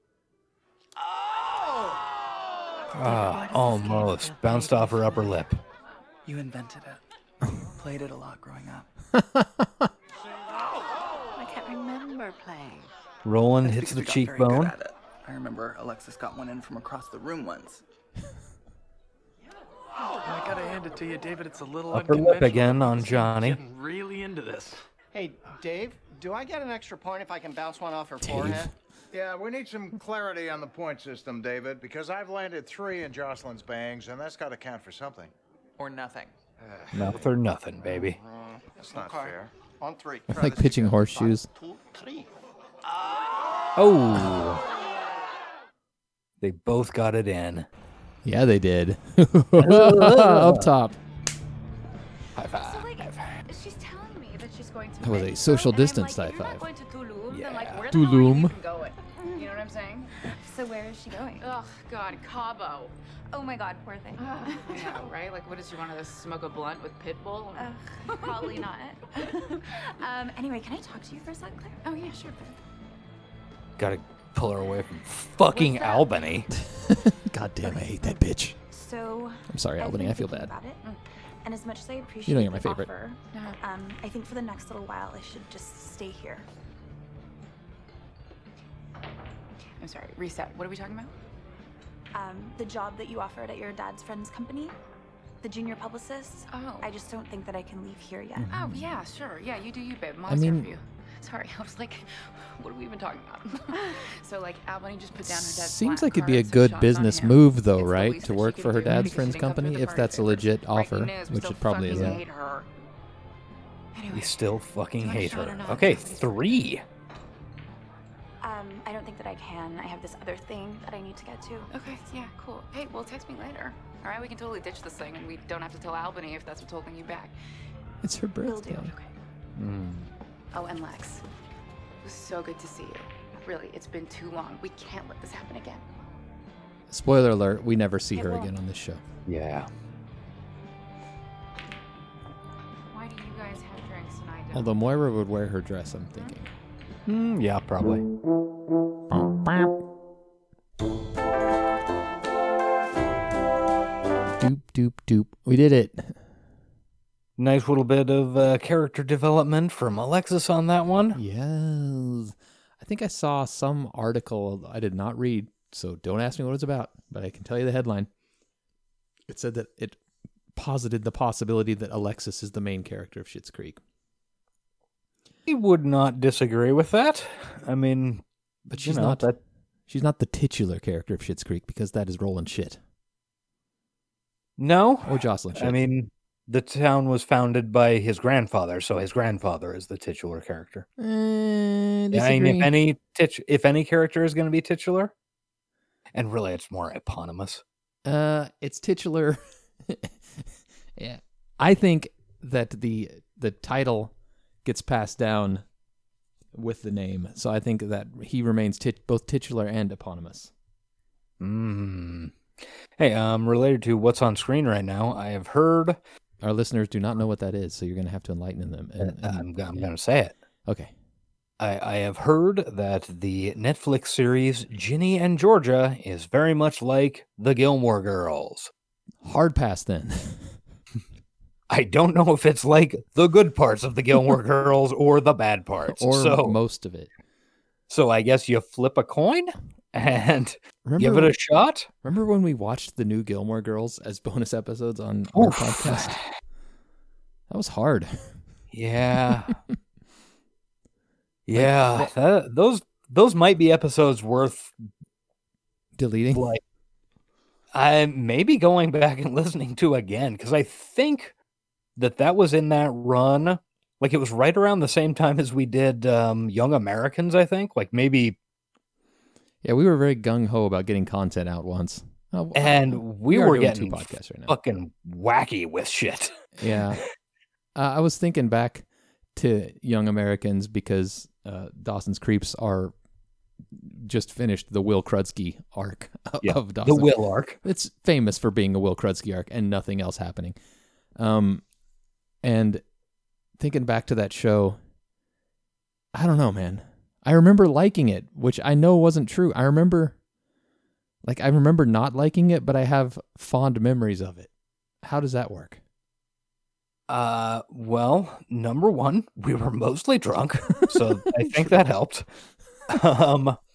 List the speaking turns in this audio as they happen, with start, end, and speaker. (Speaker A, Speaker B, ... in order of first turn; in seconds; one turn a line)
Speaker A: 1.4-2.0
Speaker B: 2.9-5.6
Speaker C: 3.0-5.5
Speaker D: 6.2-7.0
Speaker D: 7.6-8.9
Speaker E: 9.1-9.9
Speaker C: 11.4-12.9
Speaker B: 13.2-14.7
Speaker D: 13.6-17.8
Speaker F: 20.2-24.8
Speaker B: 21.9-23.6
Speaker A: 25.1-28.7
Speaker E: 28.2-28.7
Speaker G: 29.1-35.3
Speaker D: 35.8-36.3
Speaker A: 36.6-42.3
Speaker B: 36.9-38.2
Speaker G: 38.8-39.5
Speaker E: 40.3-41.5
Speaker B: 43.8-44.6
Speaker B: 46.4-47.7
Speaker E: 48.2-51.0
Speaker B: 49.6-50.7
Speaker B: 52.4-53.3
Speaker H: 52.6-60.1
Speaker E: 55.0-56.6
Speaker B: 57.3-57.9
Speaker E: 57.9-58.6
Speaker I: 59.2-59.6
Speaker I: 60.3-61.5
Speaker H: 61.4-62.9
Speaker I: 63.3-65.0
Speaker H: 64.2-69.8
Speaker I: 67.5-71.8
Speaker H: 71.8-72.5
Speaker B: 73.8-76.5
Speaker H: 75.5-76.2
Speaker E: 76.7-78.5
Speaker I: 78.7-80.8
Speaker E: 79.5-80.5
Speaker I: 81.4-86.5
Speaker E: 82.3-82.9
Speaker H: 89.8-91.1
Speaker I: 92.1-94.7
Speaker I: 95.4-98.5
Speaker H: 96.5-96.9
Speaker E: 98.3-99.0
Speaker H: 98.5-112.7
Speaker E: 100.3-100.7
Speaker E: 105.2-112.2
Speaker B: 111.8-112.2
Speaker H: 113.9-114.4
Speaker B: 114.1-116.8
Speaker H: 115.0-116.2
Speaker I: 115.0-116.3
Speaker I: 118.4-121.7
Speaker H: 121.7-127.3
Speaker E: 128.0-128.9
Speaker I: 128.4-129.0
Speaker B: 129.6-130.1
Speaker H: 130.5-131.2
Speaker H: 132.0-135.8
Speaker E: 136.9-139.0
Speaker H: 138.1-138.5
Speaker B: 139.2-139.7
Speaker H: 142.9-144.8
Speaker E: 144.5-146.5
Speaker H: 146.1-146.3
Speaker B: 147.1-148.0
Speaker E: 149.1-149.6
Speaker E: 154.4-156.2
Speaker B: 157.4-161.2
Speaker E: 161.1-168.1
Speaker E: 169.3-170.0
Speaker E: 170.5-173.8
Speaker B: 175.5-179.4
Speaker E: 178.7-179.3
Speaker E: 179.9-182.8
Speaker B: 184.6-190.8
Speaker E: 185.0-185.8
Speaker E: 191.0-192.7
Speaker B: 192.1-195.1
Speaker B: 196.1-197.6
Speaker E: 198.0-204.1
Speaker E: 204.6-205.6
Speaker E: 206.5-210.5
Speaker B: 211.4-212.3
Speaker B: 213.0-216.0
Speaker E: 216.4-219.9
Speaker B: 219.0-220.3
Speaker E: 220.7-220.9
Speaker B: 221.6-228.7
Speaker E: 229.2-230.6
Speaker B: 231.7-236.6
Speaker E: 235.9-237.1
Speaker B: 237.9-241.9
Speaker E: 240.8-241.3
Speaker E: 242.0-246.2
Speaker B: 245.3-246.3
Speaker E: 247.5-248.4
Speaker B: 248.7-249.6
Speaker B: 251.5-254.7
Speaker E: 251.5-252.1
Speaker E: 256.0-256.4
Speaker B: 256.3-256.6
Speaker B: 257.7-261.3
Speaker B: 262.0-268.4
Speaker E: 269.6-274.5
Speaker B: 272.5-276.3
Speaker E: 276.6-277.0
Speaker E: 277.8-282.9
Speaker E: 283.7-290.6
Speaker B: 286.4-287.6
Speaker E: 291.1-291.6
Speaker E: 292.4-292.8
Speaker E: 293.6-294.8
Speaker E: 296.1-300.2
Speaker E: 301.2-304.5
Speaker E: 305.0-305.8
Speaker B: 307.1-312.2
Speaker B: 312.9-313.6